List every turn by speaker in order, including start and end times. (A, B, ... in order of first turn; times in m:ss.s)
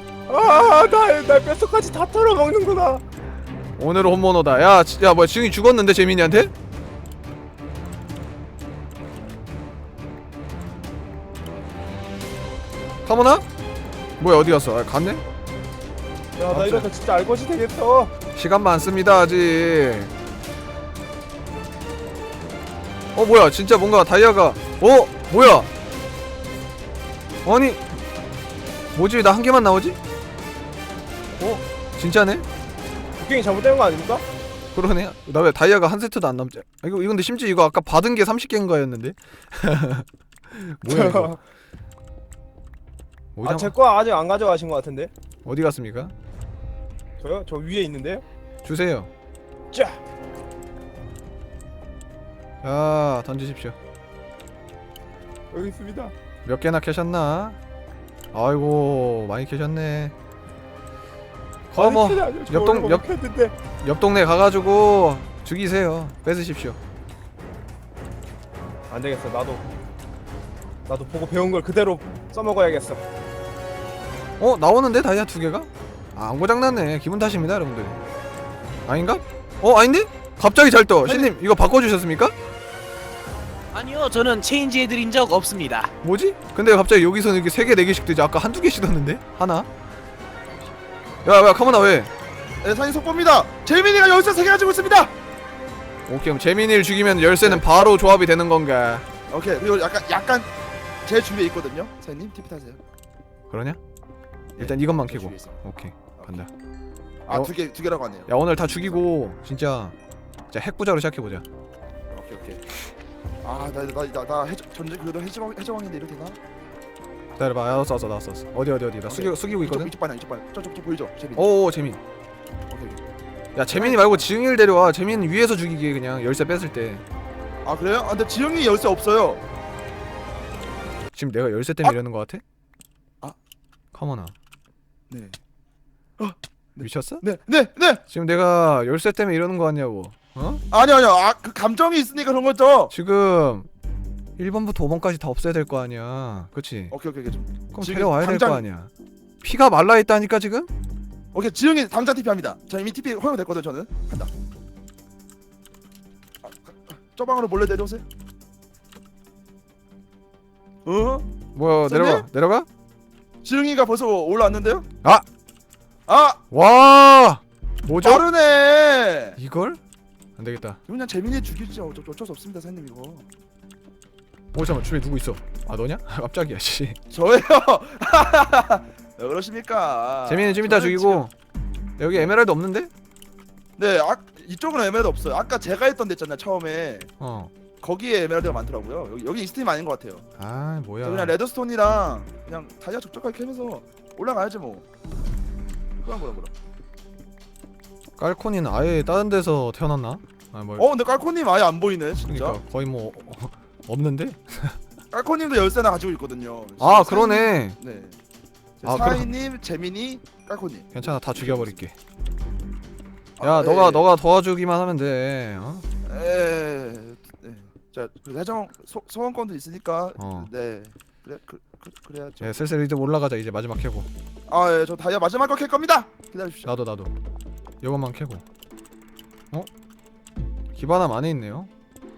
0:00.3-0:03.0 A
0:00.5-0:00.9 B
0:03.8-0:06.5 B
0:13.0-0:13.4 B
0:14.2-0:15.2 B
0:16.4-0:18.1 A
0:16.5-0:16.9 B
0:18.3-0:20.1 B
0:23.1-0:25.7 B
0:27.4-0:27.8 B
0:28.9-0:30.0 B
0:32.0-0:32.4 B
0:33.2-0:34.2 A
0:34.7-0:41.4 B
0:40.9-0:41.4 A
0:43.4-0:43.7 B
0:43.4-0:45.1 A
0:45.4-0:46.1 B
0:47.2-0:48.2 A
0:48.6-0:49.1 B
0:49.7-0:50.0 A
0:52.6-0:53.8 B
0:55.5-0:56.1 A
0:56.4-0:57.6 B
0:58.3-1:00.1 B
1:01.7-1:03.0 B
1:01.7-1:03.5 A
1:03.8-1:06.8 B
1:08.9-1:09.6 A
1:10.8-1:13.0 A
1:14.4-1:18.0 B
1:18.8-1:22.3 B
1:23.7-1:25.9 C
1:26.0-1:29.7 B
1:31.2-1:32.1 B
1:32.6-1:35.1 D
1:36.1-1:39.0 B
1:37.4-1:37.8 D
1:39.3-1:40.5 D
1:41.0-1:42.8 D
1:43.5-1:43.8 B
1:44.6-1:45.6 D
1:44.6-1:46.5 B
1:47.3-1:49.0 D
1:48.2-1:50.0 B
1:50.5-1:51.4 B
1:52.1-1:52.6 D
1:53.4-1:56.4 D
1:57.4-1:59.9 B
1:59.1-2:01.5 D
2:01.4-2:02.0 B
2:02.7-2:03.0 D
2:03.6-2:07.0 B
2:03.7-2:04.2 D
2:07.6-2:09.4 D
2:11.1-2:12.4 B
2:13.9-2:14.3 B
2:15.1-2:15.4 D
2:16.2-2:18.0 D
2:16.8-2:17.2 B
2:18.1-2:20.6 B
2:20.7-2:22.9 D
2:22.9-2:23.7 B
2:24.4-2:26.9 B
2:26.9-2:28.6 D
2:27.7-2:28.9 B
2:29.4-2:30.7 B
2:31.3-2:34.3 D
2:36.4-2:38.0 D
2:40.8-2:41.3 D
2:41.5-2:42.6 B
2:41.8-2:42.2 D
2:43.4-2:44.8 D
2:46.1-2:46.4 D
2:46.5-2:48.2 B
2:48.0-2:49.4 D
2:49.4-2:49.8 B
2:50.4-2:50.8 B
2:50.9-2:53.2 D
2:54.5-2:57.0 B
2:57.1-3:01.2 D
3:00.3-3:01.3 B
3:02.0-3:02.9 B
3:03.8-3:07.1 D
3:07.2-3:07.5 B
3:07.8-3:10.2 D
3:10.4-3:11.3 B
3:11.0-3:14.8 D
3:16.0-3:16.5 D
3:18.2-3:20.9 B
3:20.8-3:22.6 D
3:22.3-3:24.8 B
3:25.1-3:28.2 D
3:26.8-3:27.8 B
3:28.8-3:31.7 D
3:28.8-3:29.3 B
3:30.9-3:31.9 B
3:33.4-3:34.1 D
3:33.4-3:35.8 B
3:36.0-3:42.5 D
3:40.2-3:40.5 B
3:42.4-3:44.1 B
3:44.5-3:46.7 D
3:46.6-3:47.1 B
3:47.8-3:48.4 B
3:50.7-3:51.7 B